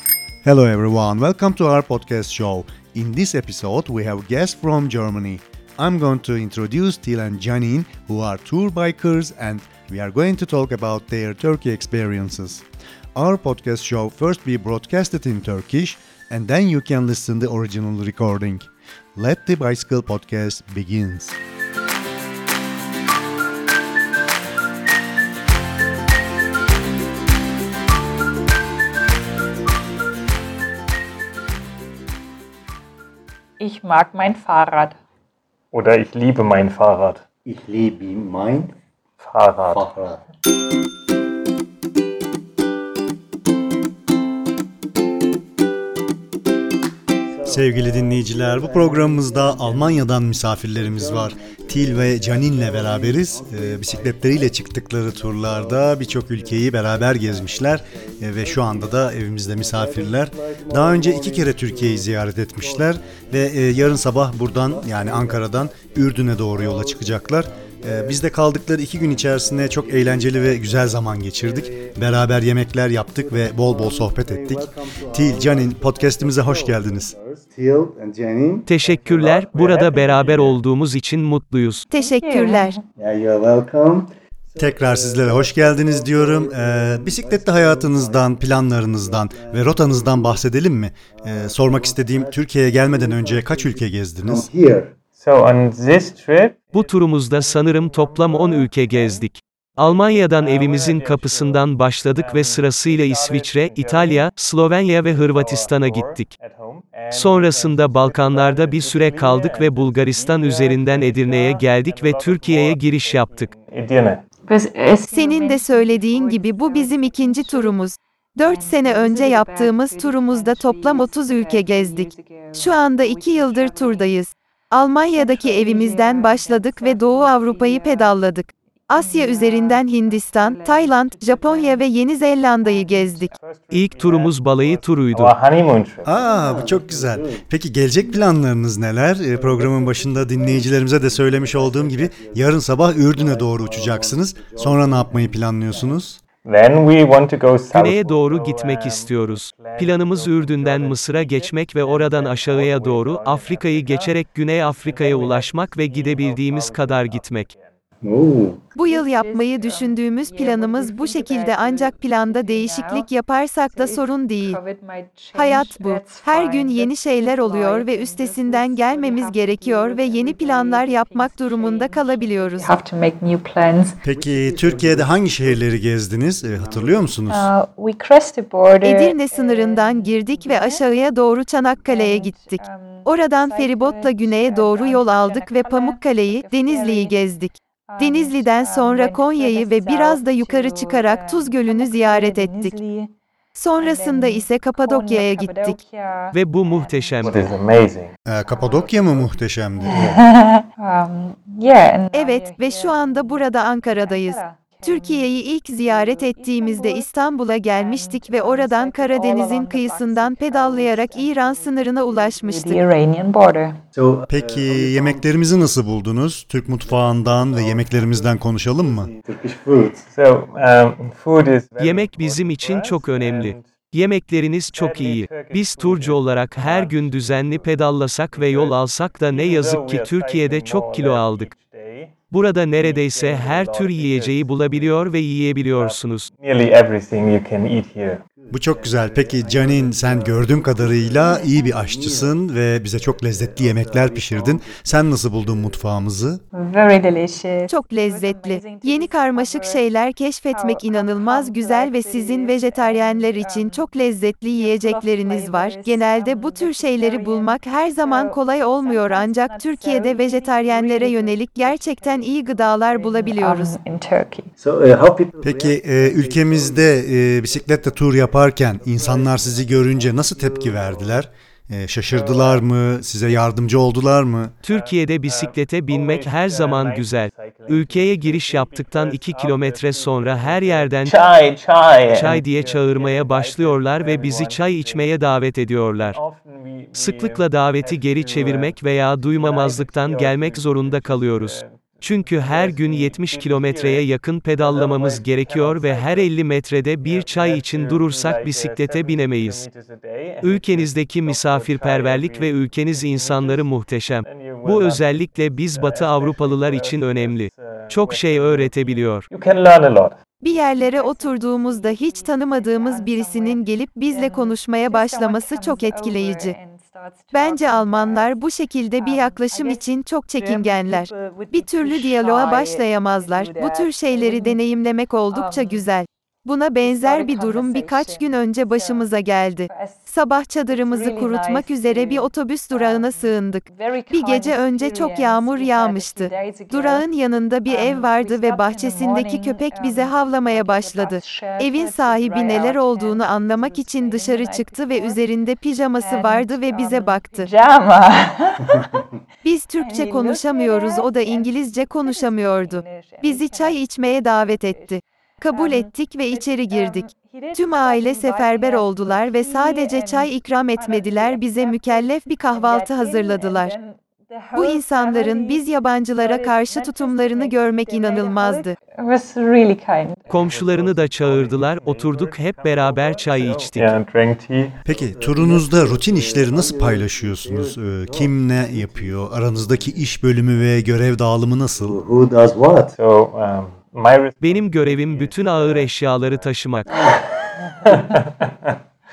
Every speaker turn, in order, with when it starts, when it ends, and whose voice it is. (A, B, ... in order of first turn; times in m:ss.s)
0:00.4-0:21.4 A
0:33.6-0:35.0 B
0:35.7-0:37.2 C
0:37.4-0:38.7 D
0:39.2-0:39.8 C
0:39.7-0:40.2 D
0:47.2-0:50.1 D
0:47.4-1:17.1 A
0:50.7-1:08.3 D
1:09.0-1:12.4 D
1:13.1-1:18.7 D
1:18.7-1:21.8 E
1:18.8-1:20.6 C
1:21.9-1:22.8 F
1:21.9-1:22.8 B
1:23.0-1:30.4 D
1:24.6-1:34.5 A
1:31.1-1:34.9 D
1:35.2-1:39.3 C
1:36.7-1:46.3 E
1:39.8-1:44.3 C
1:45.1-1:54.2 C
1:47.1-1:53.5 E
1:54.4-1:57.8 B
1:55.1-2:13.3 F
1:58.4-2:04.1 B
2:05.1-2:08.2 B
2:08.9-2:11.9 B
2:12.6-2:13.3 B
2:13.3-2:16.1 C
2:13.7-2:15.3 E
2:16.0-2:26.2 A
2:16.1-2:17.4 D
2:18.0-2:18.3 D
2:19.3-2:26.0 D
2:26.4-2:37.8 C
2:27.7-2:37.5 E
2:38.0-2:38.6 D
2:38.8-2:44.6 F
2:38.8-2:43.1 B
2:43.7-2:54.0 B
2:45.3-2:52.7 F
2:54.0-2:57.5 A
2:54.1-2:55.7 D
2:56.3-2:57.1 D
2:57.3-3:00.8 B
2:58.8-3:12.7 F
3:01.8-3:07.2 B
3:07.9-3:13.1 B
3:13.6-3:15.8 F
3:13.8-3:17.5 B
3:16.3-3:17.5 E
3:17.2-3:18.1 C
3:18.2-3:20.0 A
3:18.5-3:19.0 B
3:19.8-3:27.1 B
3:19.9-3:20.2 C
3:22.1-3:32.8 F
3:27.7-3:33.8 B
3:33.9-3:35.8 D
3:34.3-3:39.1 A
3:36.8-3:40.1 D
3:40.1-3:43.7 C
3:41.8-3:51.5 E
3:44.7-3:48.8 C
3:49.3-3:52.2 C
3:52.3-3:56.3 E
3:52.8-3:55.0 C
3:55.7-3:58.2 C
3:58.3-4:06.0 D
3:58.5-4:06.4 A
4:06.5-4:09.8 B
4:07.7-4:23.7 F
4:10.5-4:13.8 B
4:14.5-4:24.5 B
4:24.6-4:31.2 D
4:25.4-4:34.5 A
4:32.1-4:32.6 C
4:34.6-4:41.2 E
4:34.6-4:45.1 C
4:42.1-4:46.2 E
4:46.0-4:48.8 C
4:46.9-4:59.6 E
4:49.3-4:54.0 C
4:54.6-4:56.3 C
4:57.0-5:03.7 C
5:00.4-5:09.3 E
5:04.2-5:05.2 C
5:05.7-5:10.2 C
5:10.4-5:16.5 F
5:10.5-5:18.4 B
5:17.3-5:47.5 F
5:19.0-5:19.8 B
5:20.3-5:24.6 B
5:25.3-5:25.9 B
5:26.8-5:29.1 B
5:29.7-5:30.1 B
5:30.7-5:37.0 B
5:37.6-5:45.2 B
5:46.0-5:49.0 B
5:49.4-6:03.7 F
5:49.8-5:55.0 B
5:55.5-6:10.3 B
6:04.5-6:08.8 F
6:10.2-6:14.9 C
6:10.3-6:13.9 E
6:14.8-6:22.0 A
6:14.9-6:20.1 D
6:21.8-6:22.9 D
6:23.0-6:28.8 C
6:24.4-6:26.9 E
6:26.9-6:27.2 D